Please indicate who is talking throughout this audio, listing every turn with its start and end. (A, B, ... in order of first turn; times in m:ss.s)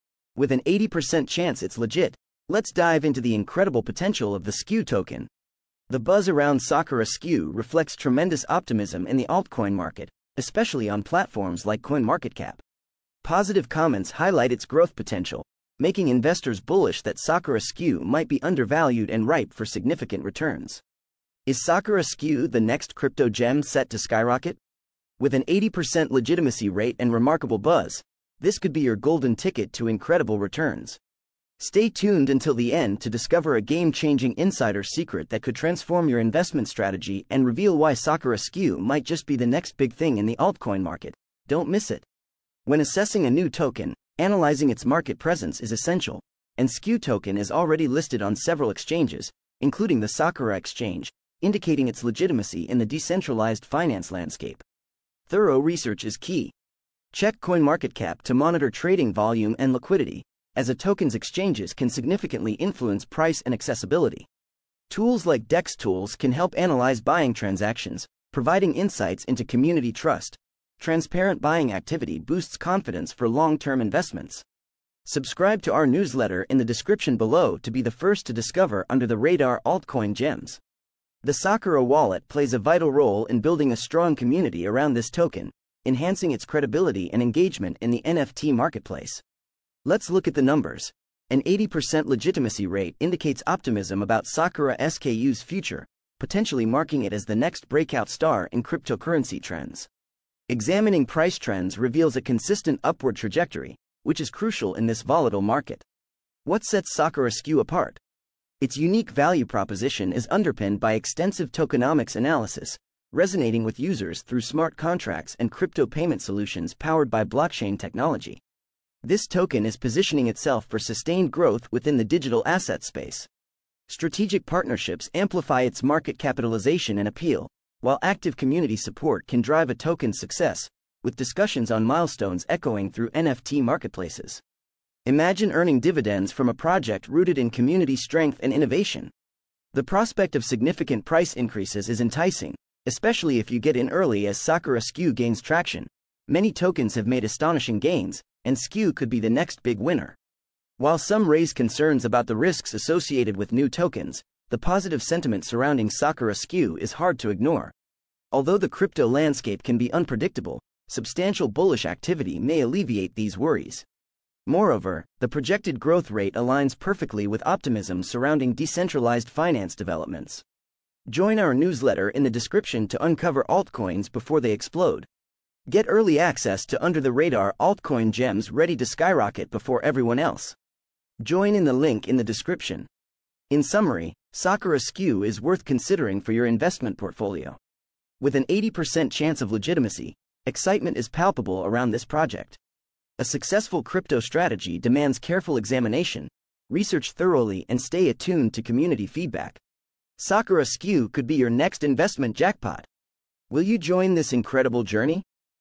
0:00.4-0:05.3 A
0:05.9-0:12.6 A
0:13.2-0:20.8 A
0:21.4-0:24.6 A
0:25.2-0:31.0 A
0:31.6-0:42.0 A
0:42.6-0:54.6 A
0:55.3-0:56.5 A
0:57.1-1:04.3 A
1:04.9-1:14.4 A
1:15.0-1:20.6 A
1:21.2-1:29.2 A
1:29.8-1:39.9 A
1:40.5-1:45.8 A
1:46.4-1:48.0 A
1:48.6-1:58.4 A
1:59.0-2:03.3 A
2:03.9-2:14.4 A
2:15.0-2:19.1 A
2:19.7-2:30.2 A
2:30.8-2:37.7 A
2:38.3-2:43.8 A
2:44.4-2:50.4 A
2:51.1-2:55.1 A
2:55.7-3:00.6 A
3:01.2-3:02.9 A
3:03.5-3:07.6 A
3:08.2-3:12.6 A
3:13.2-3:19.6 A
3:20.2-3:22.9 A
3:23.5-3:25.2 A